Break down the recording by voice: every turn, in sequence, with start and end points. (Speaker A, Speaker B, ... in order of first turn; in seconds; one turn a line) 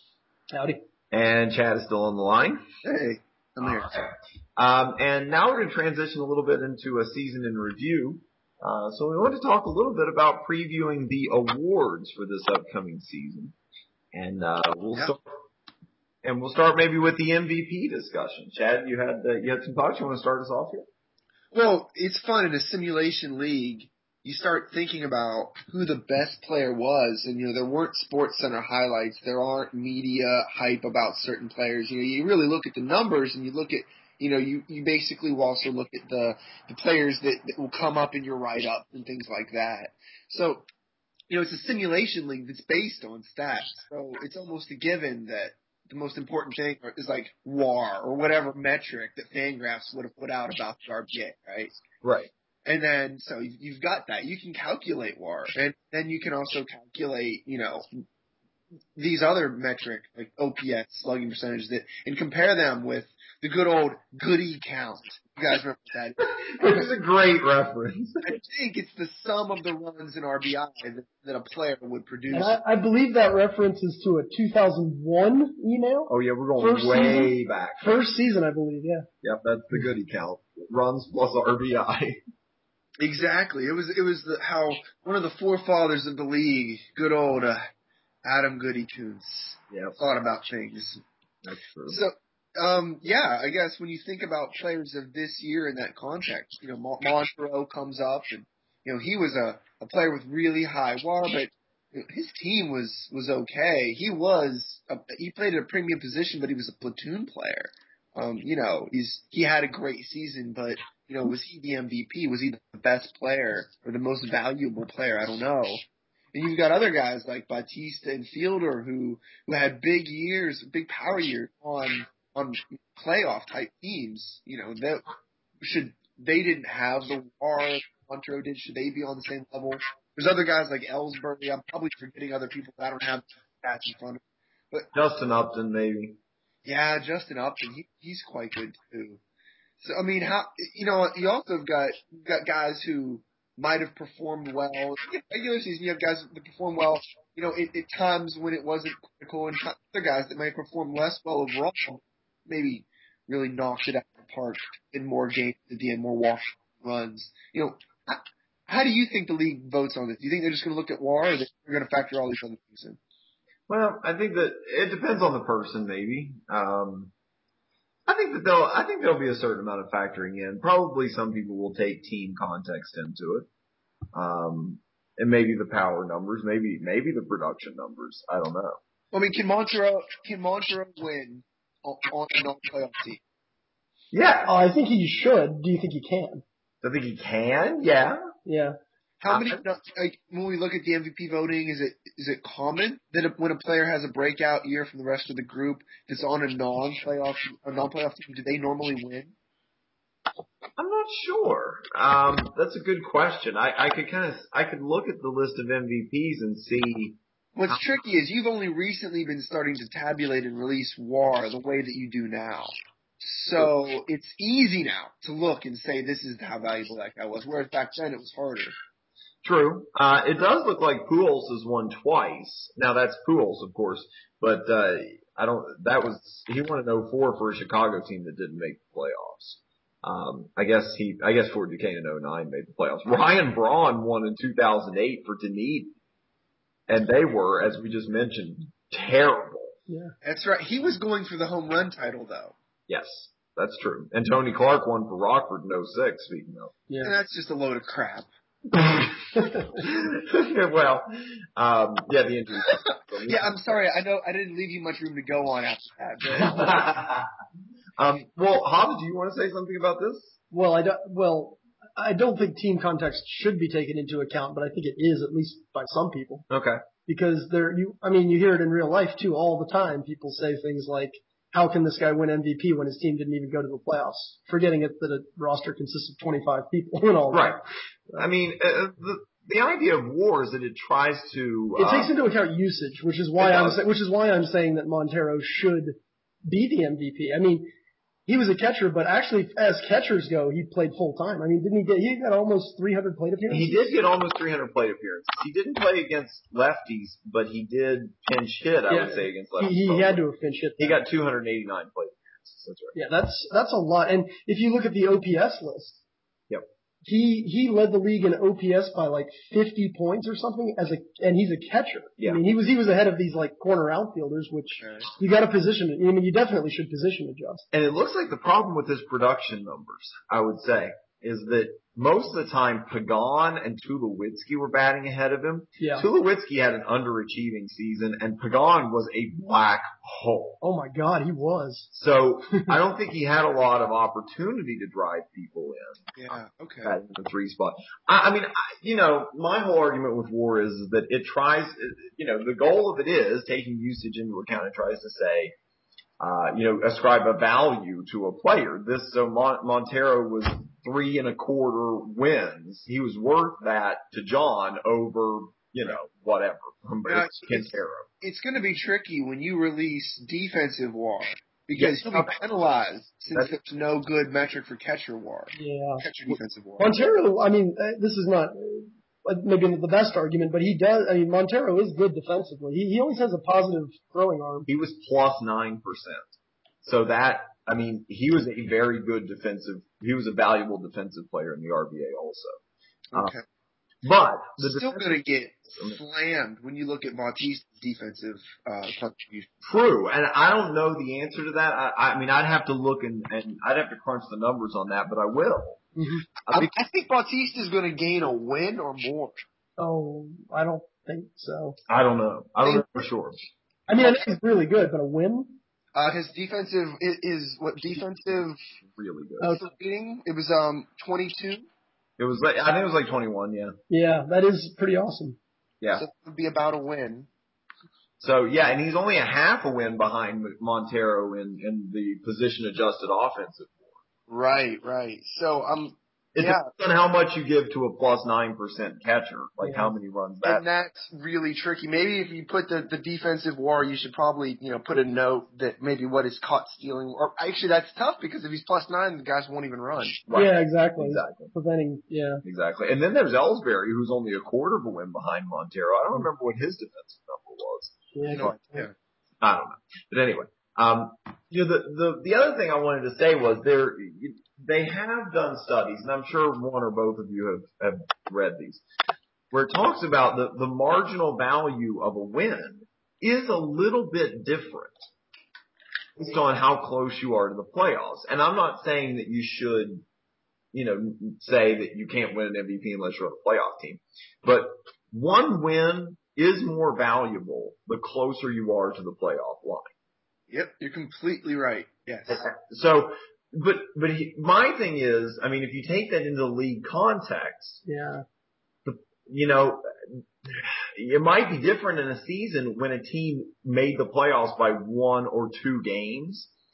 Speaker A: 0.5-0.8
Speaker B: 1.1-2.6
Speaker C: 2.8-3.9
Speaker B: 3.6-13.5
Speaker B: 14.1-15.2
Speaker B: 16.2-20.9
Speaker C: 21.5-40.6
Speaker C: 41.3-51.7
Speaker B: 52.0-52.3
Speaker C: 52.6-57.9
Speaker C: 58.9-66.9
Speaker B: 66.2-68.3
Speaker C: 68.2-72.6
Speaker A: 72.3-79.1
Speaker B: 76.1-78.0
Speaker B: 79.2-82.2
Speaker C: 83.0-87.6
Speaker C: 88.2-91.0
Speaker B: 89.7-90.0
Speaker B: 91.4-92.0
Speaker C: 91.9-125.0
Speaker C: 125.6-134.9
Speaker B: 134.9-136.2
Speaker C: 136.6-139.2
Speaker C: 139.8-163.0
Speaker B: 163.7-167.1
Speaker B: 168.1-173.5
Speaker B: 174.1-178.8
Speaker C: 179.1-183.2
Speaker B: 184.1-184.5
Speaker A: 184.4-186.4
Speaker B: 186.8-188.2
Speaker A: 188.4-188.7
Speaker C: 189.2-199.3
Speaker B: 189.3-189.6
Speaker B: 200.8-207.8
Speaker C: 207.6-218.7
Speaker B: 219.4-235.9
Speaker B: 236.9-239.8
Speaker A: 239.9-240.1
Speaker C: 240.2-242.6
Speaker B: 242.9-246.7
Speaker A: 246.9-247.1
Speaker C: 247.0-248.3
Speaker B: 249.7-253.6
Speaker C: 253.2-256.8
Speaker B: 256.3-257.3
Speaker B: 258.0-260.4
Speaker A: 260.5-266.4
Speaker B: 266.5-266.8
Speaker A: 267.1-277.6
Speaker B: 277.3-277.6
Speaker B: 278.2-282.1
Speaker A: 281.8-287.7
Speaker B: 283.4-283.8
Speaker A: 288.3-293.8
Speaker B: 293.5-300.2
Speaker A: 298.9-301.0
Speaker B: 300.8-302.9
Speaker A: 302.9-306.0
Speaker A: 307.0-317.6
Speaker C: 314.8-315.1
Speaker B: 317.7-330.6
Speaker A: 325.8-326.1
Speaker A: 330.6-331.9
Speaker B: 331.9-336.1
Speaker C: 336.1-336.9
Speaker B: 336.8-345.5
Speaker B: 346.2-358.1
Speaker C: 357.1-357.7
Speaker C: 358.2-367.0
Speaker B: 361.8-362.4
Speaker A: 365.5-366.0
Speaker A: 366.8-374.7
Speaker B: 374.7-376.3
Speaker B: 376.8-382.6
Speaker C: 383.1-383.4
Speaker B: 384.0-385.2
Speaker C: 384.6-389.5
Speaker B: 389.6-395.8
Speaker A: 395.9-396.2
Speaker B: 396.4-396.7
Speaker C: 396.5-399.4
Speaker A: 399.8-401.8
Speaker B: 401.9-403.4
Speaker C: 402.6-402.9
Speaker A: 403.9-405.6
Speaker C: 405.9-408.6
Speaker B: 408.8-409.6
Speaker C: 409.4-411.6
Speaker B: 412.2-413.8
Speaker A: 413.9-415.4
Speaker C: 415.9-417.3
Speaker B: 418.2-423.9
Speaker C: 424.3-426.7
Speaker B: 426.3-430.6
Speaker A: 429.6-429.9
Speaker C: 430.4-440.2
Speaker B: 440.3-441.5
Speaker A: 440.3-442.4
Speaker B: 442.4-448.5
Speaker A: 448.1-448.8
Speaker C: 448.3-448.9
Speaker B: 449.4-458.8
Speaker B: 459.5-465.1
Speaker B: 466.2-470.0
Speaker B: 470.7-479.9
Speaker C: 480.5-482.4
Speaker B: 482.3-487.8
Speaker A: 487.9-488.2
Speaker B: 488.9-496.5